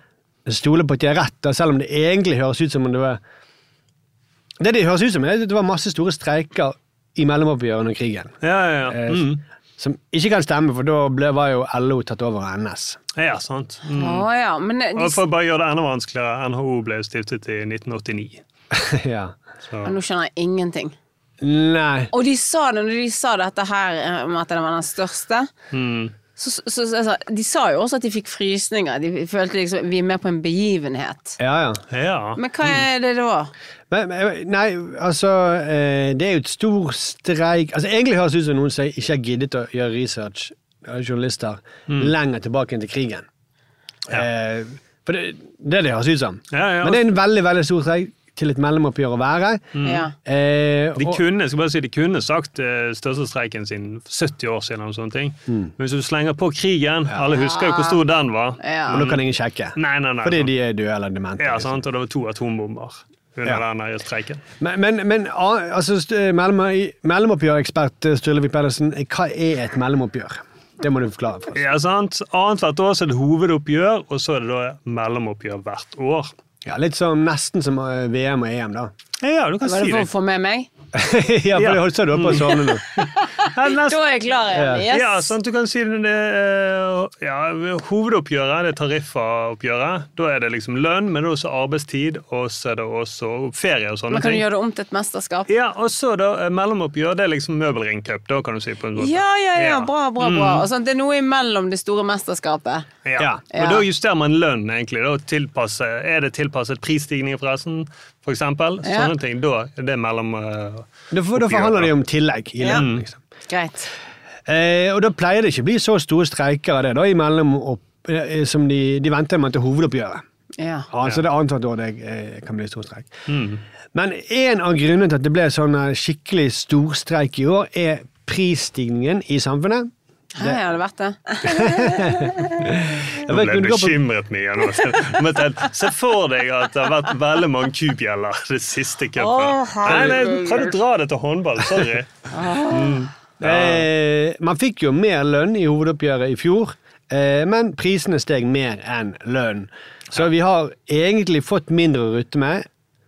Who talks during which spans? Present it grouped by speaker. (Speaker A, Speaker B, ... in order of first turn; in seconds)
Speaker A: 0.5-3.2, 4.6-13.0, 18.7-19.4, 21.4-22.1, 31.4-31.8, 33.9-43.3, 44.1-49.7, 50.2-51.2, 58.9-61.8, 64.6-71.8, 76.7-78.9, 80.9-82.8, 84.5-84.8, 111.1-113.2, 114.5-120.2, 120.9-123.2, 123.9-130.6, 131.4-134.0, 139.9-140.2, 143.4-152.7
Speaker B: 8.4-9.4, 13.2-14.3, 15.0-18.4, 19.7-20.0, 25.7-26.1, 31.9-32.8, 46.5-47.0, 49.8-50.0, 51.0-59.2, 59.8-60.5, 61.4-64.4, 71.5-76.3, 79.2-80.1, 81.5-84.0, 84.9-94.4, 95.5-100.7, 103.0-111.9, 112.7-113.1, 123.3-123.6, 133.3-142.1, 142.7-143.9
Speaker C: 13.9-15.2, 19.8-20.9, 22.1-25.5, 26.4-31.4, 32.4-33.5, 49.8-50.1, 57.3-58.0, 58.6-59.0, 79.6-80.7, 83.2-85.3, 94.1-95.5, 99.0-102.9, 103.5-103.8, 108.8-109.1, 113.5-113.9, 120.6-120.9, 130.3-132.7, 139.2-140.7, 142.3-143.1